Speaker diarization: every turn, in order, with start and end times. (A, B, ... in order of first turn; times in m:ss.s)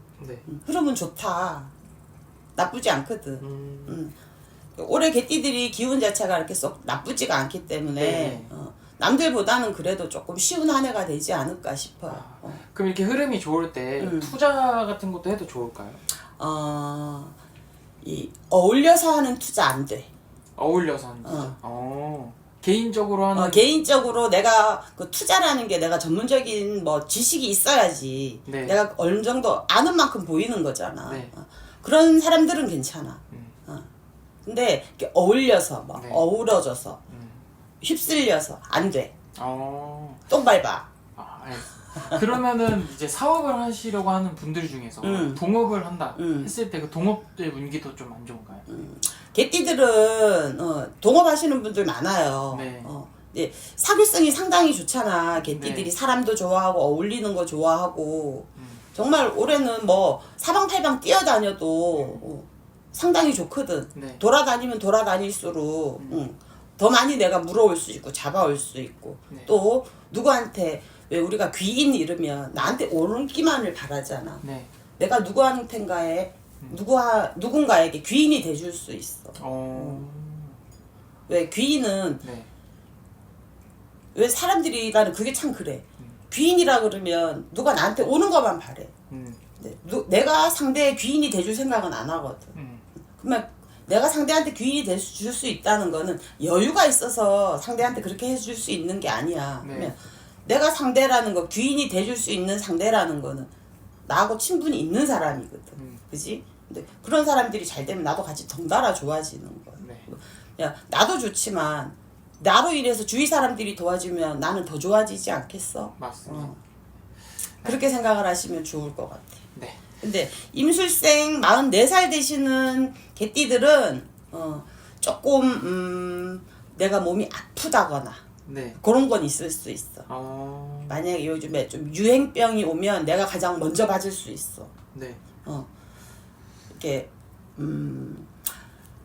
0:00.2-0:00.4 A
0:00.5-0:01.7 B
0:02.6-0:04.2 B
0:03.4-0:04.0 A
0:04.8-0:12.6 B
0:08.0-0:08.5 A
0:12.1-0:16.0 A
0:14.0-0:14.3 B
0:16.3-0:17.4 B
0:18.0-0:20.1 B
0:20.6-0:23.7 A
0:21.2-0:21.6 B
0:23.3-0:33.9 B
0:28.4-0:28.8 A
0:31.0-0:31.3 A
0:34.4-0:37.0 B
0:35.9-0:36.3 A
0:37.1-0:37.4 A
0:37.8-0:39.1 B
0:39.3-0:40.3 A
0:40.3-0:40.9 B
0:41.2-0:48.7 A
0:41.9-0:42.2 B
0:45.0-0:45.4 B
0:46.2-0:46.5 B
0:48.7-1:14.4 B
0:52.5-0:52.9 A
0:55.5-0:55.9 A
0:58.6-0:58.8 A
1:01.9-1:02.2 A
1:03.9-1:04.2 A
1:06.0-1:06.2 A
1:12.5-1:12.8 A
1:14.4-1:14.7 A
1:15.0-1:20.0 B
1:19.4-1:20.6 A
1:21.3-1:22.2 B
1:22.2-1:22.5 A
1:24.1-1:28.9 B
1:29.1-1:29.4 A
1:29.6-1:32.5 B
1:32.5-1:32.8 A
1:33.2-1:43.5 B
1:39.6-1:39.9 A
1:44.0-1:56.6 B
1:45.8-1:46.0 A
1:49.8-1:50.1 A
1:56.0-1:56.5 A
1:57.6-1:57.9 A
1:57.6-1:59.4 B
1:59.5-1:59.8 A
2:00.0-2:08.2 B
2:08.4-2:08.8 A
2:08.8-2:10.1 B
2:10.1-2:11.1 A
2:10.9-2:14.7 B
2:14.9-2:15.2 A
2:16.7-2:18.3 B